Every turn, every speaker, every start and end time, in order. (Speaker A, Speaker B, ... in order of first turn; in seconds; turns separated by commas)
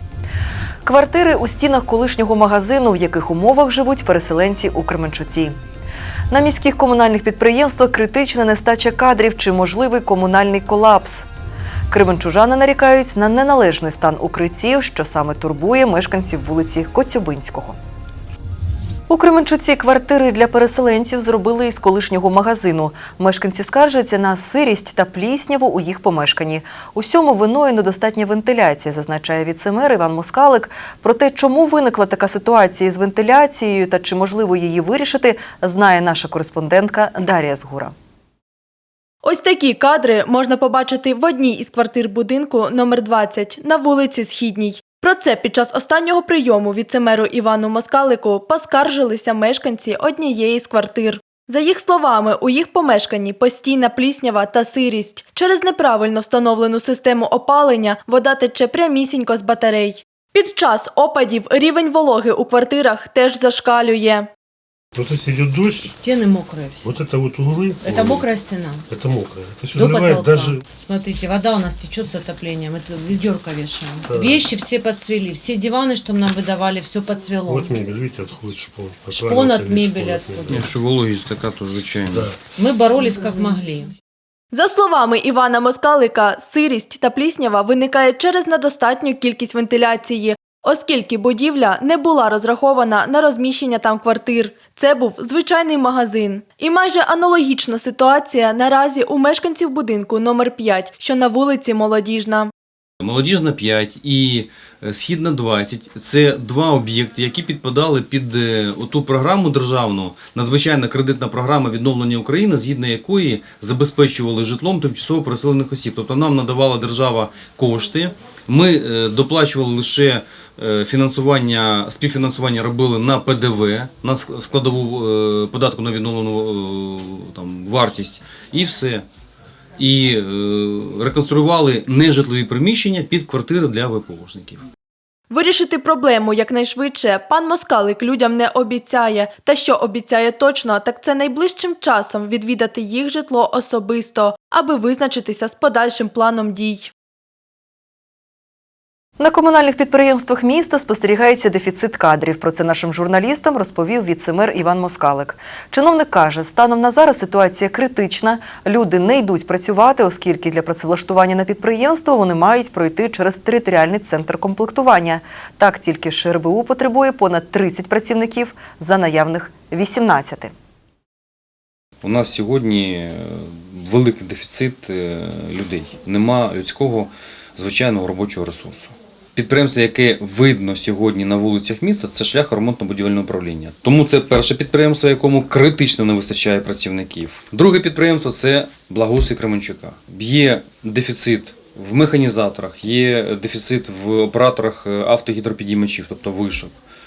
Speaker A: 0.8-5.5, Speaker A: 6.3-11.3, Speaker A: 11.9-17.8, Speaker A: 19.1-37.9, Speaker B: 39.2-64.3, Speaker C: 65.0-65.9, Speaker D: 65.8-67.0, Speaker C: 66.8-68.3, Speaker D: 67.8-68.9, Speaker C: 68.9-70.6, Speaker D: 69.7-77.9, Speaker C: 74.0-74.5, Speaker C: 77.5-80.5, Speaker D: 79.1-80.7, Speaker E: 80.5-82.4, Speaker C: 82.1-82.4, Speaker D: 82.4-83.9, Speaker B: 84.5-102.5, Speaker E: 103.0-129.0, Speaker E: 129.8-134.6, Speaker B: 135.3-146.9, Speaker A: 149.2-170.5, Speaker E: 172.0-196.7